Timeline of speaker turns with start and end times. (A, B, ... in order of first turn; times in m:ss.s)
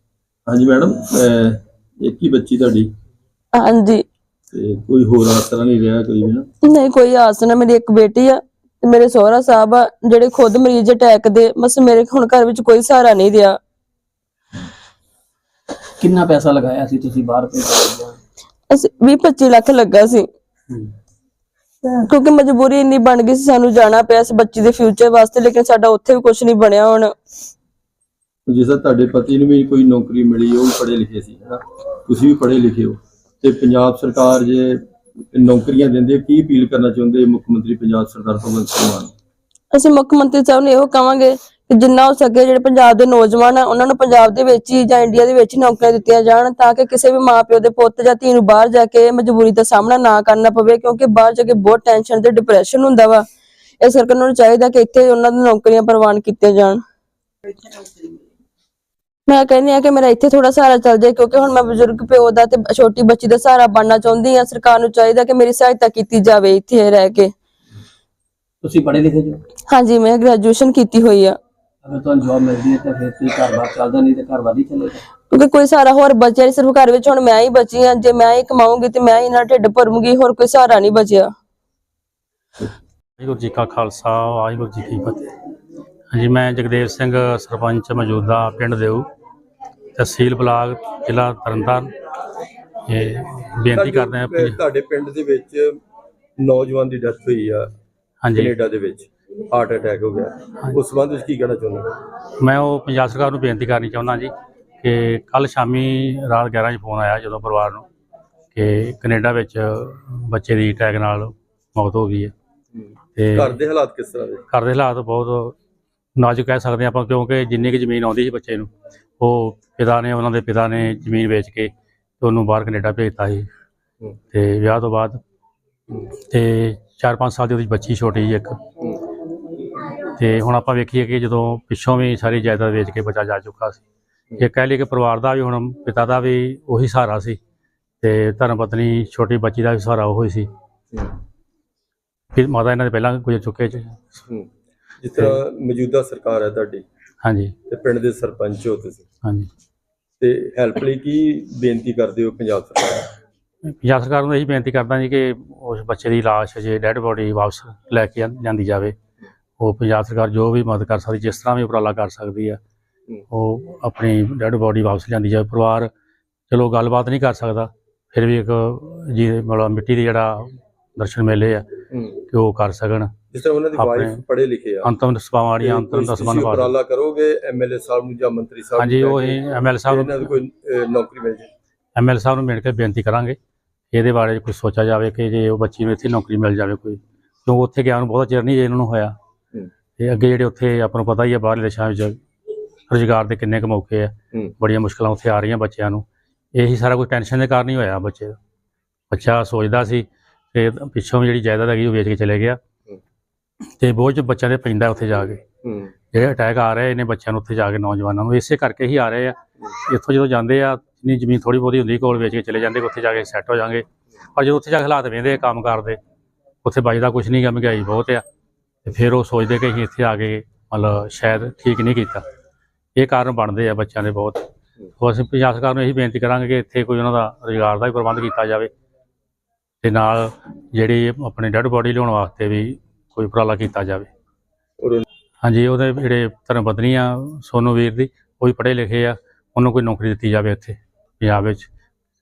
0:00.5-0:02.9 A
0:03.5-0:04.0 B
0:04.5-0:06.5 A
0:06.6-0:13.6 B
0:16.0-0:18.2 C
0:18.7-0:20.3 B
0:21.9-0:27.1 B
0:28.5-0:34.8 A
0:35.3-0:39.1 A
0:39.7-0:53.2 B
0:53.8-0:56.8 B
0:59.3-1:07.3 B
1:08.6-1:09.4 C
1:09.7-1:11.4 B
1:11.8-1:15.0 C
1:15.3-1:21.3 B
1:23.2-1:25.3 D
1:26.1-1:29.1 D
1:30.0-1:31.9 D
1:32.9-1:34.6 D
1:33.7-1:35.8 A
1:36.4-1:37.7 A
1:38.2-1:38.5 D
1:38.3-1:41.9 A
1:42.4-1:47.9 D
1:48.5-1:52.3 D
1:52.8-1:54.4 A
1:53.2-1:53.6 D
1:54.5-1:55.6 D
1:56.2-1:58.7 D
1:59.2-2:03.5 D
2:04.3-2:05.2 D
2:06.3-2:08.6 D
2:10.0-2:13.8 D
2:14.4-2:17.4 D
2:18.0-2:20.5 D
2:22.3-2:24.1 D
2:25.0-2:26.8 A
2:27.2-2:27.5 D
2:27.7-2:29.0 A
2:30.2-2:33.1 A
2:33.7-2:39.0 D
2:39.6-2:42.6 D
2:43.3-2:45.9 D
2:46.5-2:51.7 D
2:51.9-2:52.2 A
2:52.3-2:53.1 D
2:53.3-2:54.9 A
2:53.8-2:54.2 D
2:54.8-2:56.7 D
2:55.6-3:01.5 A
2:58.8-3:00.3 D
3:02.0-3:03.4 D
3:03.9-3:09.2 D
3:10.0-3:12.2 D
3:12.9-3:18.4 D
3:19.1-3:22.6 D
3:23.8-3:25.4 D
3:25.6-3:25.9 A
3:26.1-3:36.0 D
3:36.6-3:38.2 D
3:38.8-3:42.2 D
3:43.0-3:44.5 D
3:45.0-3:48.7 D
3:49.8-3:54.1 D
3:54.8-3:55.0 A
3:55.4-4:01.7 D